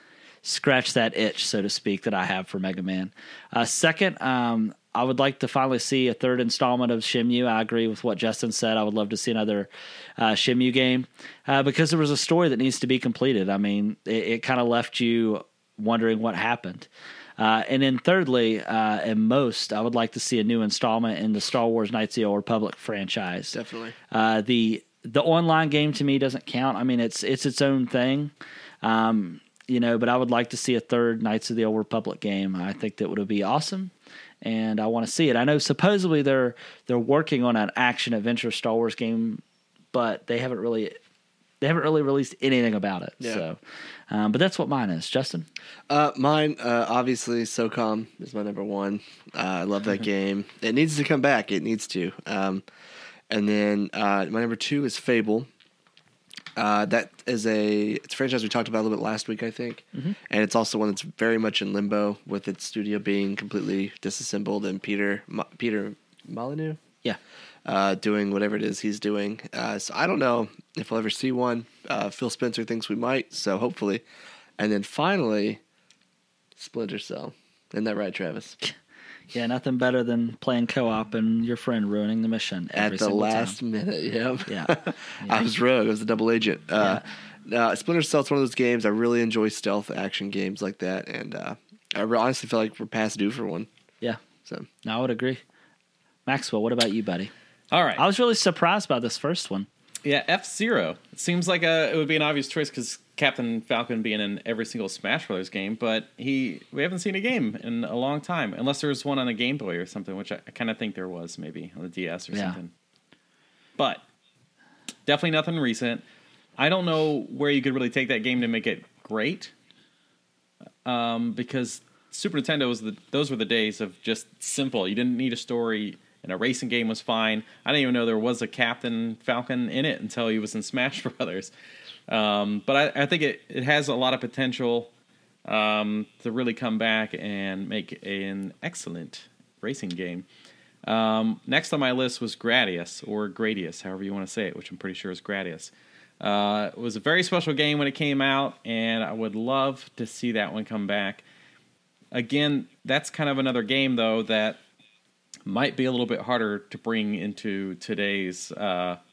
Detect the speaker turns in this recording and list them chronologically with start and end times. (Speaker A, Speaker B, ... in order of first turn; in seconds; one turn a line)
Speaker A: 0.4-23.6
Speaker B: 23.5-23.9
Speaker A: 24.1-39.4
Speaker A: 39.9-41.0
Speaker A: 41.6-43.6
Speaker A: 44.1-45.5
Speaker B: 45.9-52.6
Speaker B: 53.3-55.5
Speaker B: 56.6-66.8
Speaker B: 67.7-74.0
Speaker B: 74.6-75.6
Speaker B: 76.6-78.6
Speaker A: 79.3-83.6
Speaker B: 82.8-93.7
Speaker A: 84.5-85.5
Speaker A: 86.8-87.0
Speaker A: 94.8-95.4
Speaker A: 96.3-97.3
Speaker C: 97.7-98.0
Speaker A: 98.0-99.7
Speaker C: 100.0-112.7
Speaker A: 112.3-112.6
Speaker C: 115.1-116.0
Speaker C: 116.6-119.5
Speaker C: 120.8-131.5
Speaker C: 132.1-134.9
Speaker C: 135.4-140.3
Speaker C: 140.8-151.2
Speaker C: 152.1-154.6
Speaker C: 155.5-159.0